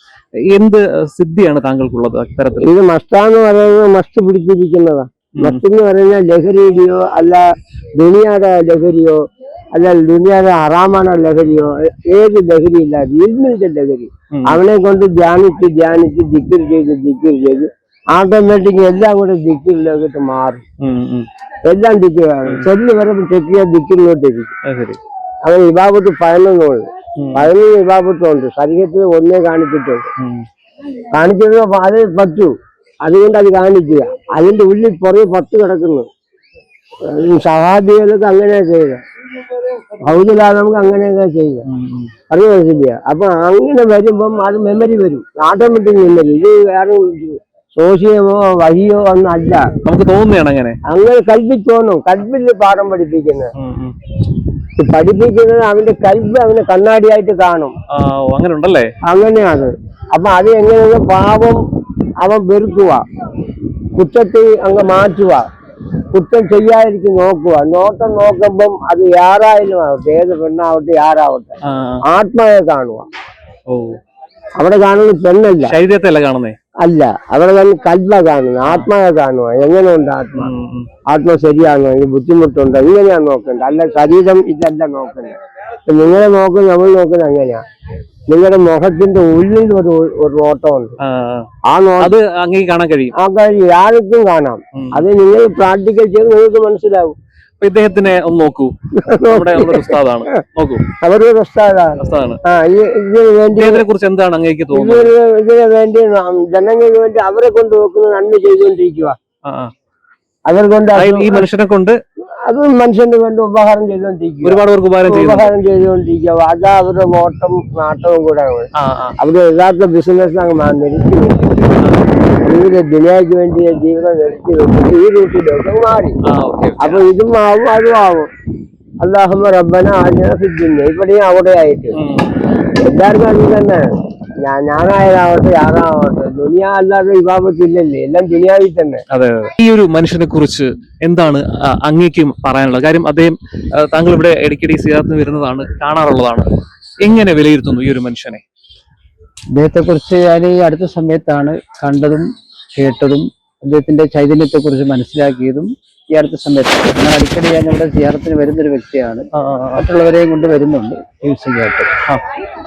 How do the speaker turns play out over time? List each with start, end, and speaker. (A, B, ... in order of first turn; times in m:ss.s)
0:00.5-0:02.7 A
0:02.6-0:07.4 B
0:05.4-0:05.6 A
0:08.0-0:09.2 B
0:09.7-0:20.6 B
0:14.3-0:14.6 A
0:20.8-0:21.3 A
0:21.7-0:24.5 B
0:24.6-0:25.0 A
0:25.4-0:30.1 B
0:27.2-0:27.5 A
0:30.2-0:30.4 A
0:31.1-0:32.5 B
0:33.0-0:36.1 B
0:37.1-0:39.0 B
0:40.0-0:41.6 B
0:41.7-0:42.1 A
0:42.3-0:49.7 B
0:49.8-0:50.8 A
0:50.9-0:53.5 B
0:53.6-0:54.0 A
0:54.8-0:57.7 B
0:57.9-0:58.9 A
0:59.1-1:01.6 B
1:02.2-1:03.0 B
1:04.0-1:05.4 B
1:06.1-1:11.6 B
1:11.7-1:12.0 A
1:12.1-1:13.1 B
1:13.7-1:14.0 A
1:14.6-1:15.7 B
1:15.6-1:16.6 A
1:16.8-1:20.5 B
1:20.4-1:20.9 A
1:21.1-1:27.6 B
1:28.3-1:31.0 B
1:31.0-1:31.5 A
1:31.6-1:32.2 B
1:32.0-1:33.1 A
1:33.2-1:37.2 B
1:34.8-1:35.0 A
1:37.6-1:40.8 A
1:39.0-1:39.9 B
1:41.0-1:43.8 B
1:42.0-1:42.4 A
1:43.6-1:45.1 A
1:44.7-1:49.2 B
1:49.5-1:49.7 A
1:50.5-1:51.5 B
1:50.9-1:52.0 A
1:52.5-2:01.6 B
1:54.4-1:55.5 A
1:58.8-1:59.2 A
2:02.4-2:06.2 B
2:06.3-2:07.0 A
2:06.8-2:08.3 B
2:09.0-2:12.0 B
2:12.0-2:12.5 A
2:12.8-2:13.8 B
2:14.4-2:19.0 B
2:19.1-2:26.5 A
2:27.0-2:28.4 A
2:29.5-2:41.9 C
2:39.4-2:39.8 A